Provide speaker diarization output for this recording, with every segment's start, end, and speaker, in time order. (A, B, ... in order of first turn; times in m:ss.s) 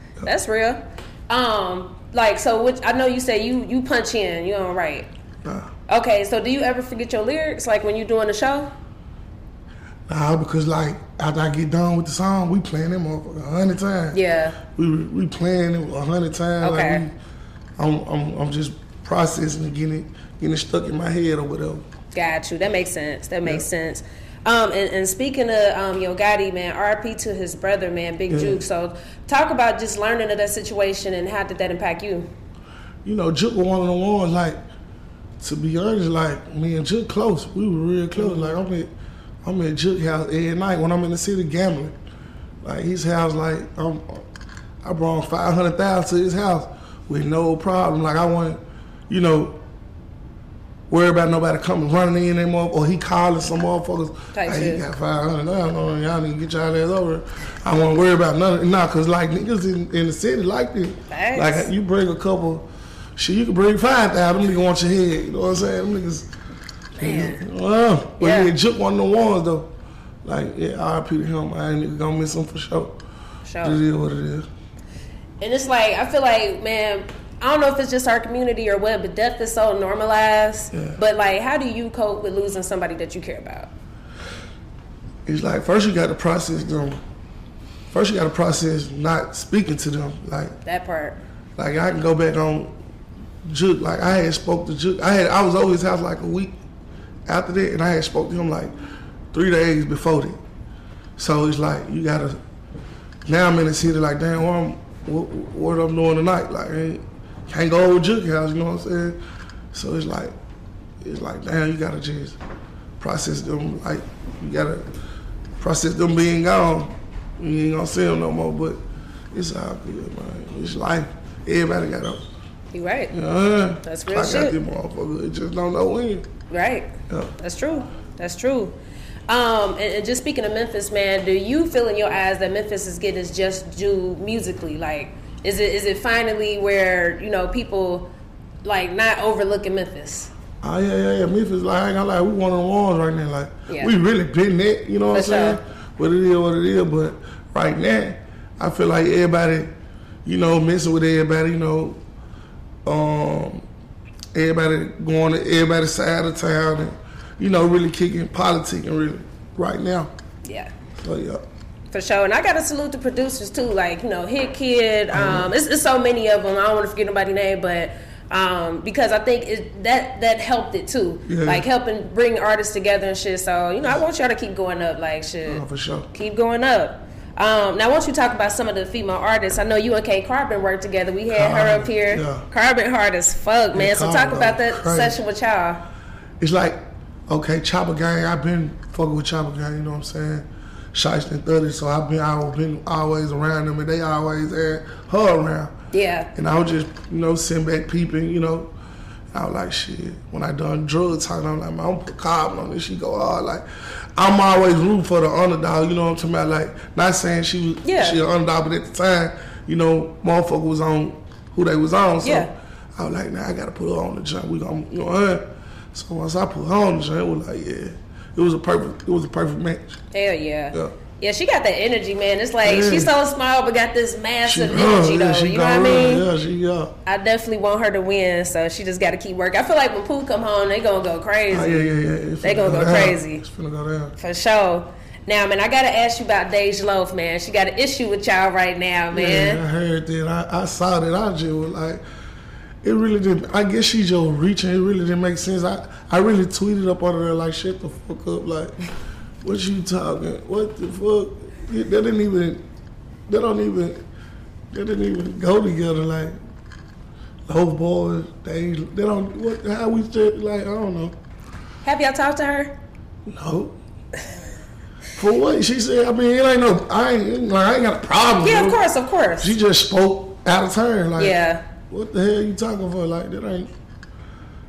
0:00.2-0:05.1 A
0:05.4-0:05.7 B
0:05.9-0:08.7 A
0:10.1-0:14.2 B
0:14.1-0:14.6 A
0:14.7-0:17.1 B
0:16.6-0:17.0 A
0:17.8-0:21.8 B
0:22.1-0:32.3 A
0:28.3-0:28.6 B
0:33.0-0:34.6 B
0:35.4-0:38.9 B
0:38.2-0:38.6 A
0:39.4-0:41.9 B
0:42.6-0:44.2 B
0:44.8-0:49.6 B
0:50.9-1:06.3 B
0:54.3-0:54.8 A
1:01.1-1:01.7 A
1:07.0-1:07.4 A
1:07.0-1:09.7 B
1:08.2-1:08.5 A
1:10.2-1:13.0 B
1:13.4-1:13.8 A
1:13.6-1:14.4 B
1:15.4-1:23.7 A
1:20.7-1:21.0 B
1:25.2-1:27.0 B
1:27.9-1:30.6 B
1:30.6-1:31.2 A
1:31.6-1:32.7 B
1:33.4-1:36.5 B
1:37.3-1:38.7 B
1:39.3-1:40.4 B
1:41.2-1:42.4 B
1:43.2-1:49.2 B
1:49.7-1:50.3 B
1:51.0-1:52.4 B
1:53.0-1:54.9 B
1:55.6-1:58.8 B
1:59.3-2:02.2 B
2:02.7-2:03.1 A
2:03.1-2:06.3 B
2:03.8-2:04.6 A
2:06.5-2:08.8 A
2:09.3-2:18.1 A
2:18.6-2:20.3 A
2:20.6-2:29.7 B
2:25.1-2:25.6 A
2:30.2-2:32.0 B
2:32.8-2:33.6 B
2:34.3-2:40.1 B
2:40.4-2:40.7 A
2:41.0-2:41.4 B
2:41.9-3:05.8 A
2:45.1-2:45.5 B
2:51.2-2:51.7 B
2:55.4-2:56.1 B
3:01.3-3:02.4 B
3:03.7-3:05.2 B
3:06.4-3:15.7 B
3:15.9-3:16.3 A
3:16.3-3:18.7 B
3:19.3-3:23.6 B
3:24.2-3:40.0 B
3:27.8-3:28.2 A
3:32.2-3:32.5 A
3:40.1-3:46.2 A
3:42.6-3:43.1 B
3:44.4-3:46.9 B
3:47.0-3:51.9 A
3:51.5-3:54.1 B
3:52.4-3:53.4 A
3:54.2-3:59.6 A
3:59.1-4:02.0 B
4:02.8-4:08.7 B
4:09.4-4:12.6 B
4:13.3-4:14.0 B
4:14.7-4:16.4 B
4:17.5-4:21.2 B
4:21.8-4:22.7 A
4:23.3-4:23.8 B
4:25.2-4:28.8 B
4:28.4-4:29.6 A
4:29.4-4:31.4 B
4:31.2-4:31.6 A
4:31.9-4:33.7 B